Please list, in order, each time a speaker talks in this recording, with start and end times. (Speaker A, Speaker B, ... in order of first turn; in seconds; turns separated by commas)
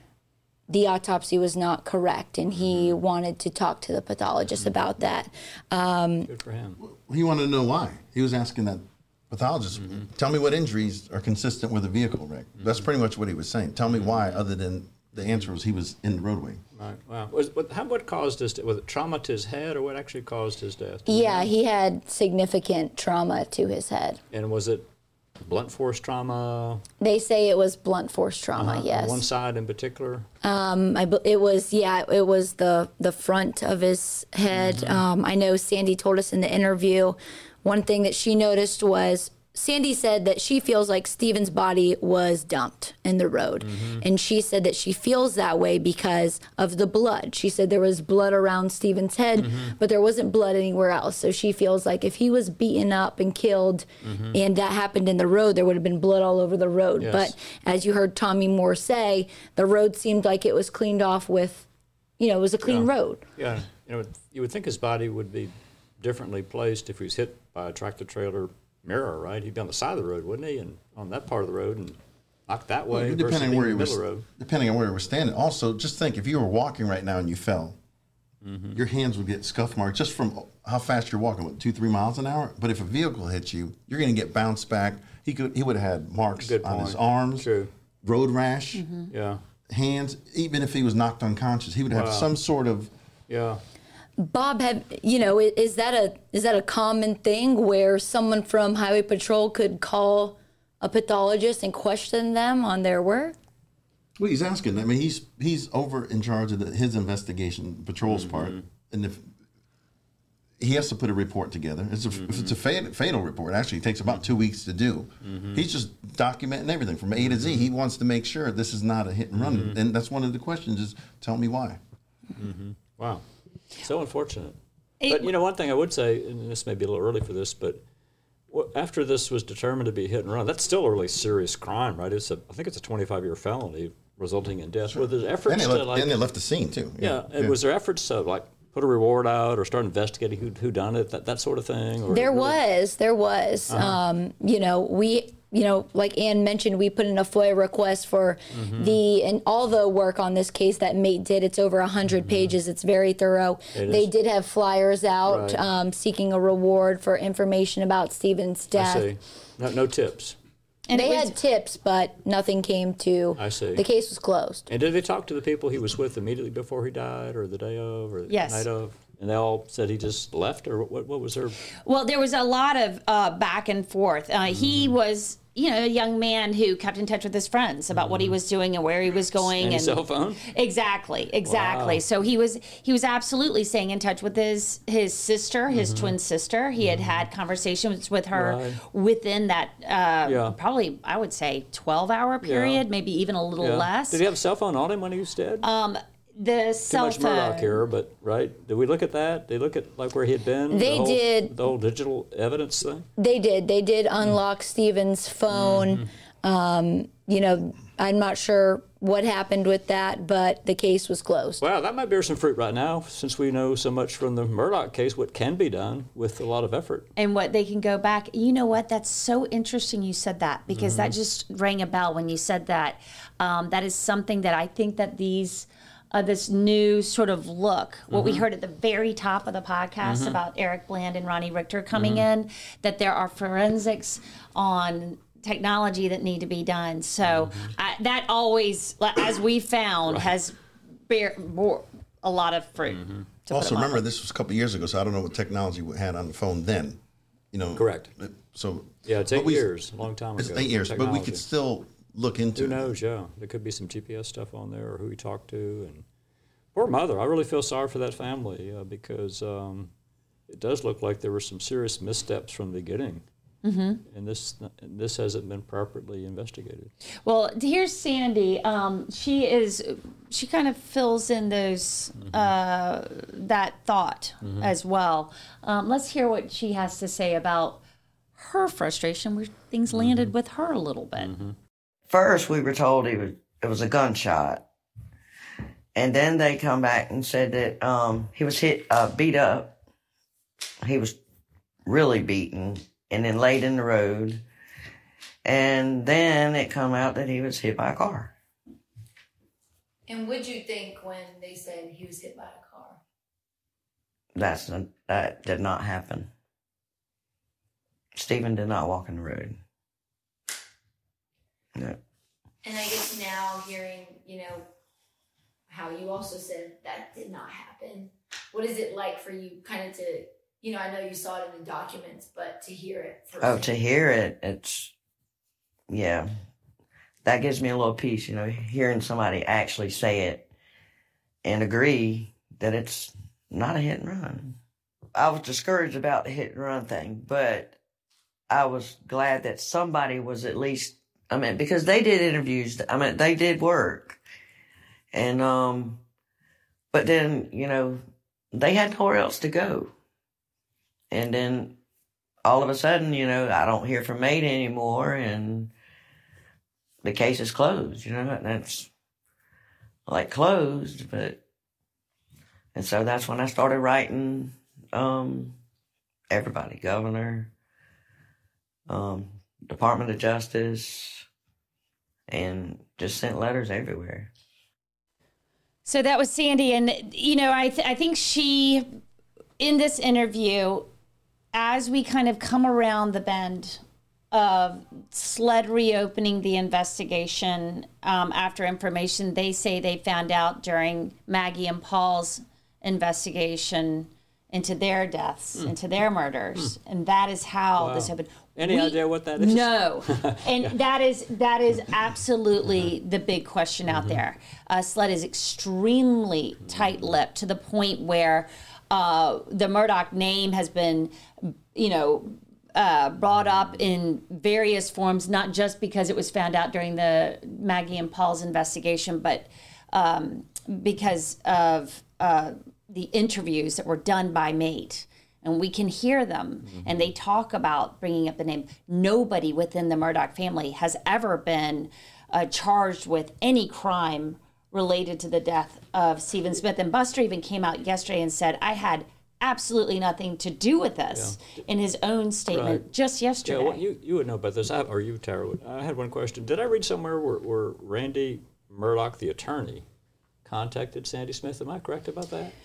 Speaker A: 0.7-6.3, Speaker B: 2.5-3.0, Speaker B: 6.3-6.8, Speaker C: 6.8-16.6, Speaker B: 9.8-10.1, Speaker B: 12.6-12.9, Speaker B: 13.9-14.4, Speaker B: 15.1-15.5, Speaker B: 16.7-21.5, Speaker A: 21.1-24.2, Speaker B: 24.3-24.8, Speaker B: 25.4-26.8, Speaker A: 27.0-29.2, Speaker B: 28.6-30.2, Speaker A: 30.4-61.7, Speaker B: 34.5-35.0, Speaker B: 43.6-44.0, Speaker B: 49.4-49.7, Speaker B: 54.0-54.4, Speaker B: 57.0-57.3, Speaker A: 62.2-63.2, Speaker B: 62.6-74.2, Speaker C: 72.9-77.8, Speaker B: 78.4-78.8, Speaker C: 78.7-87.5, Speaker B: 86.4-87.7, Speaker C: 88.0-88.8, Speaker D: 88.7-89.1, Speaker B: 89.1-89.4, Speaker C: 89.7-92.9, Speaker B: 91.9-92.3, Speaker B: 93.3-93.6, Speaker A: 94.2-103.3, Speaker C: 104.2-109.2, Speaker B: 108.0-108.6, Speaker C: 110.6-121.8, Speaker B: 112.1-112.6, Speaker B: 115.2-115.6, Speaker B: 117.2-117.7, Speaker B: 119.3-119.8, Speaker B: 122.4-123.2, Speaker B: 123.8-124.6, Speaker D: 125.0-125.3, Speaker B: 125.1-127.8, Speaker B: 128.5-136.2, Speaker C: 134.9-137.6, Speaker B: 137.0-142.6, Speaker A: 142.1-159.1, Speaker B: 143.7-144.0, Speaker B: 148.5-148.9, Speaker B: 152.1-152.5, Speaker B: 153.7-154.1, Speaker B: 155.3-155.6, Speaker B: 158.7-160.4, Speaker D: 160.9-161.3, Speaker A: 160.9-164.7, Speaker B: 163.4-163.8, Speaker B: 164.7-171.6, Speaker D: 168.3-168.7, Speaker D: 171.8-194.2, Speaker B: 174.5-174.9, Speaker B: 177.9-178.3, Speaker B: 179.4-180.4, Speaker B: 181.4-182.0, Speaker B: 185.7-186.1, Speaker B: 186.8-187.2, Speaker B: 188.3-188.8, Speaker B: 190.2-190.5, Speaker B: 192.4-192.8, Speaker B: 193.6-195.7, Speaker D: 195.6-197.8, Speaker B: 196.9-203.1, Speaker A: 200.7-201.5, Speaker A: 203.2-211.6, Speaker B: 205.5-206.1, Speaker B: 211.6-217.1, Speaker D: 217.2-240.6, Speaker B: 220.7-221.2, Speaker B: 228.1-228.4, Speaker B: 230.0-230.4, Speaker B: 231.9-232.2, Speaker B: 237.2-237.7, Speaker D: 241.1-244.0, Speaker B: 242.9-243.3, Speaker C: 243.5-247.0, Speaker C: 247.5-249.7, Speaker B: 247.7-248.1, Speaker B: 249.0-251.4, Speaker C: 250.4-252.9, Speaker B: 252.5-256.0, Speaker B: 256.7-259.9, Speaker B: 260.5-263.2, Speaker D: 263.6-264.0, Speaker B: 264.1-266.9, Speaker D: 267.2-277.8, Speaker B: 272.2-272.5, Speaker B: 274.4-274.7, Speaker D: 278.4-281.3, Speaker B: 279.9-280.3, Speaker B: 281.2-281.6, Speaker E: 282.1-284.6, Speaker E: 285.9-289.7, Speaker E: 290.8-291.2, Speaker E: 291.8-294.4, Speaker E: 295.4-298.3, Speaker A: 300.1-303.0, Speaker E: 304.3-306.3, Speaker E: 308.1-309.6, Speaker A: 312.6-314.6, Speaker A: 315.7-323.7, Speaker E: 323.4-324.9, Speaker E: 325.9-326.3, Speaker E: 327.2-330.4, Speaker E: 331.4-334.6, Speaker E: 335.1-337.8, Speaker E: 338.5-344.2, Speaker E: 345.1-346.0, Speaker E: 346.9-348.0, Speaker E: 348.5-349.9, Speaker E: 351.1-351.8, Speaker E: 352.4-355.7, Speaker E: 357.0-358.9, Speaker E: 360.1-361.4, Speaker E: 362.7-365.6, Speaker E: 366.3-367.5, Speaker E: 368.9-371.2, Speaker E: 372.3-374.3, Speaker D: 375.8-378.8, Speaker D: 379.6-380.9, Speaker D: 381.5-383.8, Speaker D: 384.3-443.8, Speaker B: 397.8-400.7, Speaker B: 403.9-404.2, Speaker B: 406.6-407.1, Speaker B: 426.7-427.1, Speaker B: 441.1-441.6, Speaker B: 442.5-442.8, Speaker B: 443.4-449.8, Speaker B: 450.4-452.5